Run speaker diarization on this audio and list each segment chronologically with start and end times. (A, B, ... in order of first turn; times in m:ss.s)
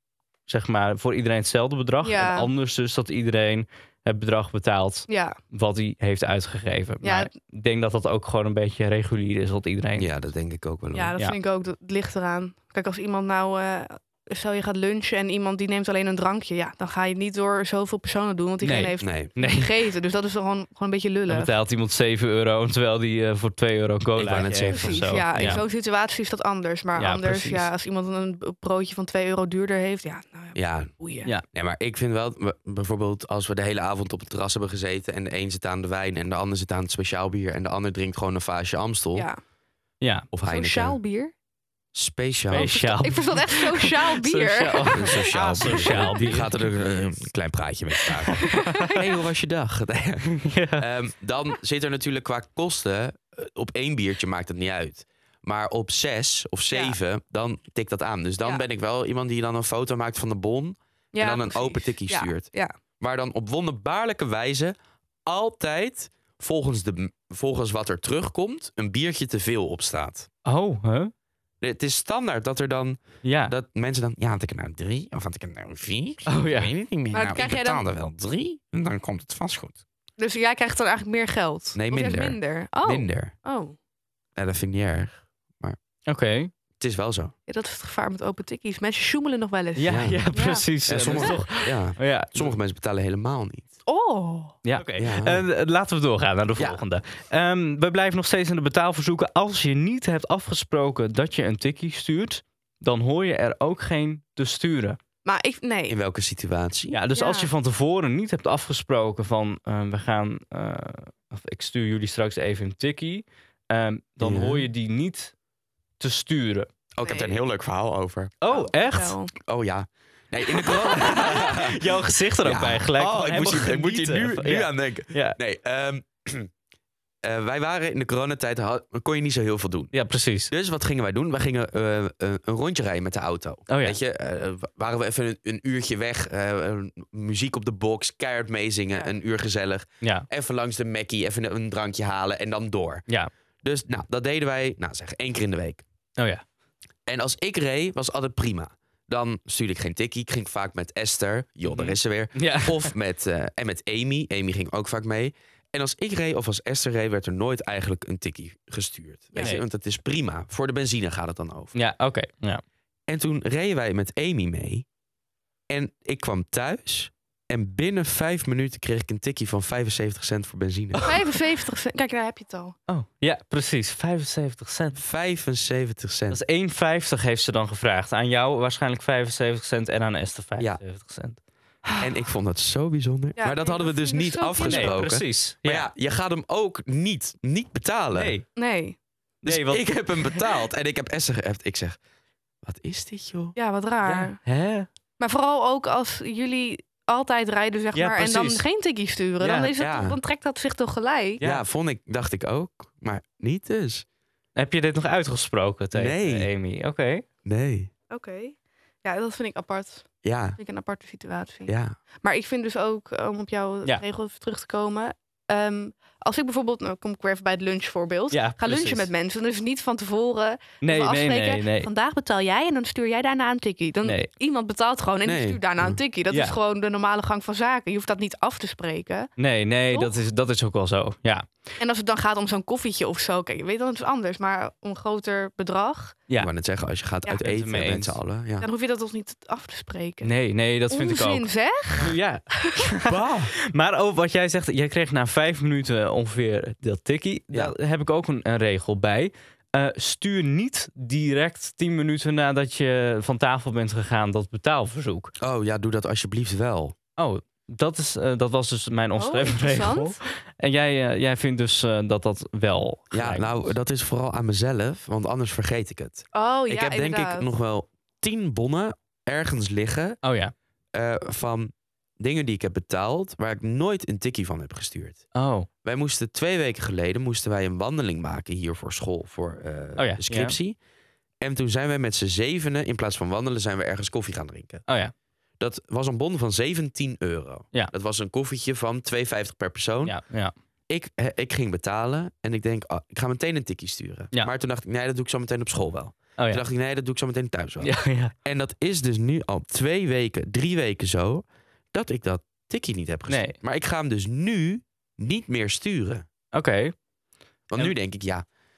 0:00.5-0:10.1 A
0:02.0-0:02.5 B
0:05.1-0:05.4 B
0:07.0-0:07.3 B
0:10.0-0:11.1 C
0:10.9-0:21.5 B
0:18.6-0:19.7 A
0:19.0-0:19.3 C
0:21.3-0:25.6 A
0:24.2-0:25.6 C
0:24.4-0:31.3 B
0:27.0-0:27.7 A
0:30.6-0:30.9 C
0:31.5-0:39.3 C
0:39.2-0:39.4 B
0:40.0-0:40.3 A
0:40.3-0:41.0 C
0:40.5-0:41.3 B
0:41.9-0:42.8 C
0:42.5-0:46.6 A
0:42.5-0:46.4 B
0:44.9-1:10.3 C
0:48.3-0:49.1 B
0:48.4-0:48.9 A
0:50.3-0:50.8 A
0:56.7-0:57.0 B
1:01.1-1:02.7 B
1:10.4-1:11.1 A
1:11.6-1:19.8 C
1:13.2-1:13.5 A
1:16.3-1:16.7 A
1:17.1-1:17.8 B
1:20.2-1:23.8 B
1:21.8-1:23.3 C
1:24.4-1:25.8 C
1:26.1-1:26.5 A
1:26.8-1:27.3 C
1:27.5-1:31.4 B
1:29.8-1:32.6 A
1:29.9-1:30.2 C
1:30.9-1:33.7 C
1:33.9-1:34.6 B
1:34.6-1:45.0 A
1:35.0-1:35.4 C
1:45.2-1:46.0 B
1:45.9-1:47.0 C
1:46.9-1:55.3 A
1:47.1-1:47.5 B
1:54.2-1:54.7 C
1:56.0-1:56.7 A
1:57.0-1:58.3 C
1:57.0-1:57.4 B
1:58.4-1:59.2 A
1:58.5-1:59.3 B
1:59.4-2:06.5 C
2:00.6-2:05.4 A
2:07.2-2:09.9 C
2:09.9-2:10.5 A
2:10.5-2:23.1 C
2:13.7-2:14.0 A
2:20.0-2:20.3 A
2:23.6-2:25.8 C
2:26.2-2:26.4 A
2:27.1-2:41.8 C
2:31.7-2:32.9 A
2:39.3-2:39.6 B
2:41.8-2:42.6 A
2:43.1-2:44.9 C
2:45.7-2:51.0 C
2:51.0-2:52.8 B
2:52.9-2:55.0 A
2:55.0-2:56.4 C
2:56.3-3:01.4 A
3:02.0-3:08.3 C
3:03.4-3:05.0 B
3:04.6-3:05.9 A
3:08.1-3:08.5 A
3:08.6-3:09.0 B
3:09.4-3:10.5 A
3:09.4-3:12.0 C
3:12.6-3:13.6 C
3:13.6-3:14.4 B
3:14.2-3:14.9 A
3:15.2-3:21.4 B
3:17.9-3:18.6 A
3:19.4-3:19.7 A
3:19.8-3:20.2 C
3:21.4-3:21.6 A
3:21.4-3:24.0 C
3:24.6-3:27.2 A
3:25.9-3:26.5 C
3:27.4-3:27.9 C
3:28.1-3:31.7 B
3:30.2-3:30.6 C
3:31.7-3:32.0 C
3:32.2-3:49.3 B
3:38.3-3:39.1 A
3:40.8-3:41.9 A
3:44.0-3:44.3 A
3:45.2-3:46.0 C
3:46.3-3:46.6 A
3:49.4-3:51.5 A
3:51.8-3:56.2 B
3:56.4-3:58.7 C
3:57.4-3:58.2 A
3:58.6-4:00.3 B
4:00.2-4:15.3 A
4:00.9-4:02.9 B
4:03.1-4:03.5 C
4:15.4-4:17.0 C
4:17.2-4:23.8 A
4:19.2-4:20.2 B
4:23.1-4:30.2 C
4:26.3-4:27.5 B
4:30.2-4:30.5 A
4:30.9-4:35.3 C
4:35.4-4:35.7 A
4:35.8-4:40.8 C
4:40.0-4:40.6 A
4:41.4-4:44.8 C
4:44.9-4:45.1 A
4:45.6-4:50.2 C
4:50.0-4:50.5 A
4:50.9-5:06.3 C
4:56.4-4:56.6 A
4:57.8-4:58.3 A
5:03.3-5:03.6 A
5:06.5-5:07.0 A
5:07.7-5:08.4 C